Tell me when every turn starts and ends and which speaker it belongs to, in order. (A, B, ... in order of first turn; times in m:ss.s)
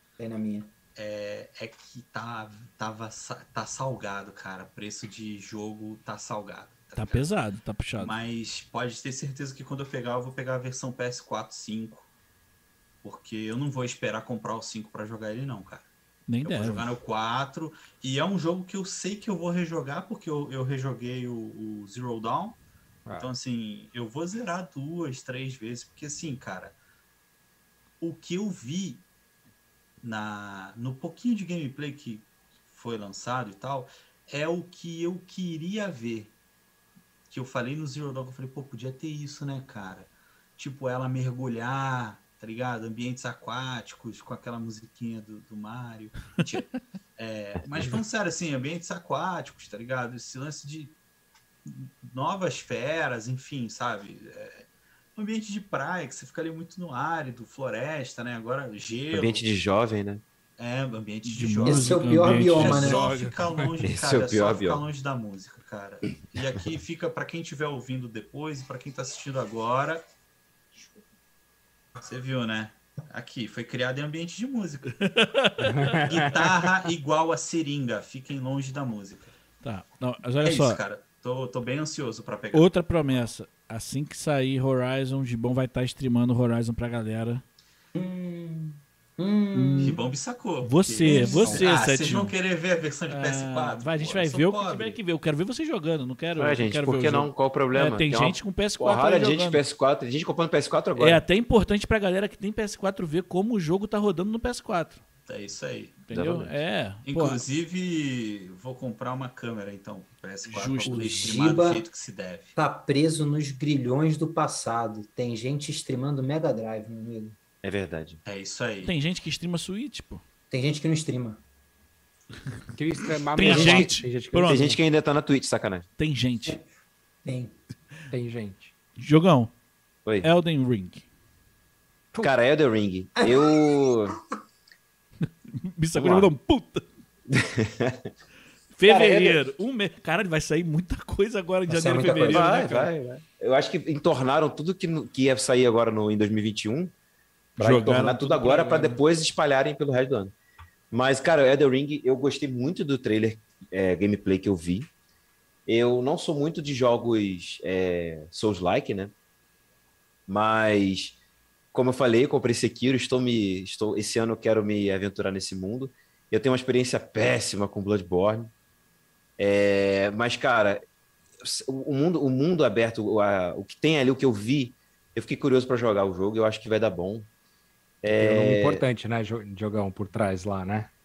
0:00.2-0:00.7 A
0:01.0-0:07.3 B
0:07.0-0:08.2 C
0:08.0-0:12.1 B
0:13.0-0:15.9 B
0:16.3-0:16.9 C
0:16.4-0:22.6 B
0:23.1-0:26.8 B
0:28.0-0:29.0 B
0:30.0-0:36.3 B
0:37.3-0:50.9 B
0:51.6-0:59.5 B
0:59.1-1:00.2 D
1:00.6-1:10.0 B
1:01.2-1:03.6 C
1:01.6-1:03.0 A
1:03.8-1:04.8 D
1:12.0-1:15.0 B
1:15.0-1:16.1 C
1:15.6-1:16.3 E
1:16.0-1:19.4 B
1:19.6-1:20.8 C
1:20.4-1:22.7 B
1:22.5-1:27.4 C
1:27.9-1:30.0 A
1:29.5-1:30.0 C
1:29.8-1:35.0 B
1:30.6-1:32.3 C
1:31.0-1:31.6 A
1:31.3-1:31.6 E
1:33.1-1:39.6 C
1:36.4-1:41.2 D
1:41.0-1:45.0 C
1:45.3-1:46.0 B
1:46.0-1:47.4 C
1:46.1-1:46.6 D
1:47.0-1:52.6 B
1:50.5-1:51.5 C
1:50.8-1:51.8 A
1:52.6-1:57.4 A
1:57.6-1:58.2 D
1:58.2-1:58.9 B
1:58.8-2:00.2 C
2:00.5-2:01.4 A
2:02.7-2:04.8 E
2:03.3-2:04.7 C
2:03.4-2:03.7 A
2:04.4-2:05.8 D
2:06.0-2:06.6 C
2:07.2-2:07.6 A
2:08.1-2:08.7 E
2:09.0-2:09.5 C
2:10.2-2:11.0 C
2:12.2-2:14.2 D
2:13.2-2:14.1 A
2:15.6-2:16.8 C
2:16.0-2:16.3 D
2:17.3-2:18.1 D
2:18.7-2:22.9 C
2:18.8-2:19.4 D
2:21.7-2:22.5 A
2:22.3-2:26.9 D
2:27.6-2:29.0 C
2:27.6-2:30.3 D
2:30.9-2:34.9 D
2:35.6-2:39.1 D
2:40.3-2:41.2 D
2:41.7-2:48.5 D
2:49.4-2:50.8 D
2:51.4-2:57.3 D
2:58.0-2:58.8 D
2:58.1-3:00.9 E